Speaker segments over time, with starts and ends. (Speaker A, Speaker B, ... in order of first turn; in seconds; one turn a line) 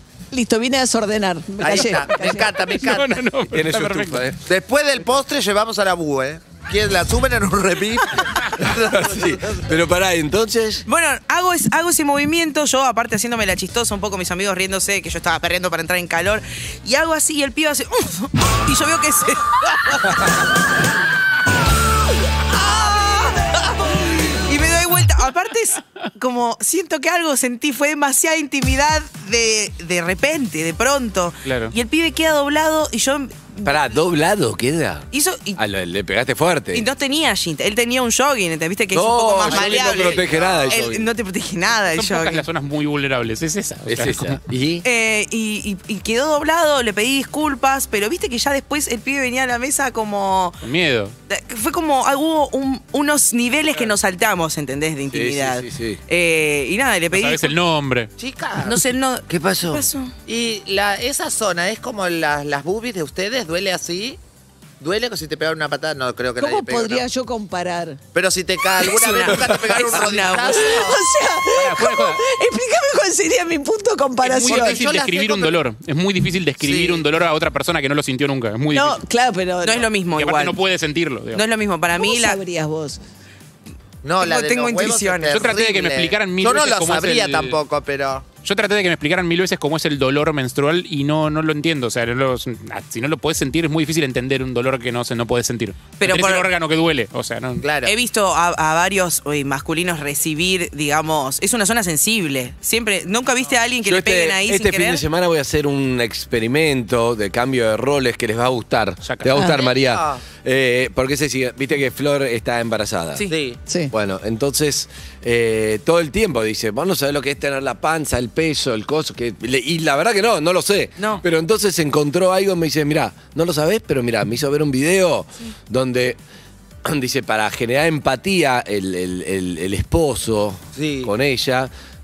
Speaker A: 0.3-2.5
Speaker B: 1.6-3.2
Speaker C: 2.8-4.2
Speaker D: 3.5-4.4
Speaker B: 4.5-9.6
Speaker D: 8.6-10.8
Speaker E: 10.9-20.4
Speaker E: 22.5-33.8
Speaker C: 31.4-31.7
Speaker D: 33.6-36.9
Speaker E: 35.1-35.6
Speaker E: 36.7-42.4
Speaker D: 38.9-41.1
Speaker B: 39.5-40.9
Speaker C: 42.0-44.4
Speaker D: 43.9-44.9
Speaker E: 44.8-50.6
Speaker C: 50.6-51.1
Speaker E: 51.3-57.6
Speaker D: 55.1-56.0
Speaker C: 57.1-58.1
Speaker B: 58.2-58.8
Speaker E: 58.6-60.1
Speaker D: 59.3-59.9
Speaker B: 60.3-64.2
Speaker B: 64.8-67.1
Speaker A: 66.4-68.0
Speaker B: 68.2-71.0
Speaker E: 68.8-70.9
Speaker A: 70.6-74.8
Speaker C: 71.5-72.2
Speaker C: 74.2-79.0
Speaker B: 74.5-75.6
Speaker B: 76.6-77.1
Speaker A: 78.7-79.9
Speaker E: 79.6-80.6
Speaker C: 80.2-81.4
Speaker E: 81.3-82.4
Speaker A: 82.0-83.0
Speaker B: 84.0-88.3
Speaker E: 84.2-85.4
Speaker C: 85.3-87.6
Speaker C: 88.4-97.7
Speaker E: 96.0-96.5
Speaker B: 97.6-97.9
Speaker E: 97.8-105.0
Speaker D: 103.8-113.3
Speaker C: 109.0-109.3
Speaker B: 109.4-110.2
Speaker B: 113.3-113.6
Speaker A: 113.7-113.9
Speaker D: 113.9-126.2
Speaker E: 121.0-121.2
Speaker D: 126.8-131.7
Speaker B: 130.8-131.1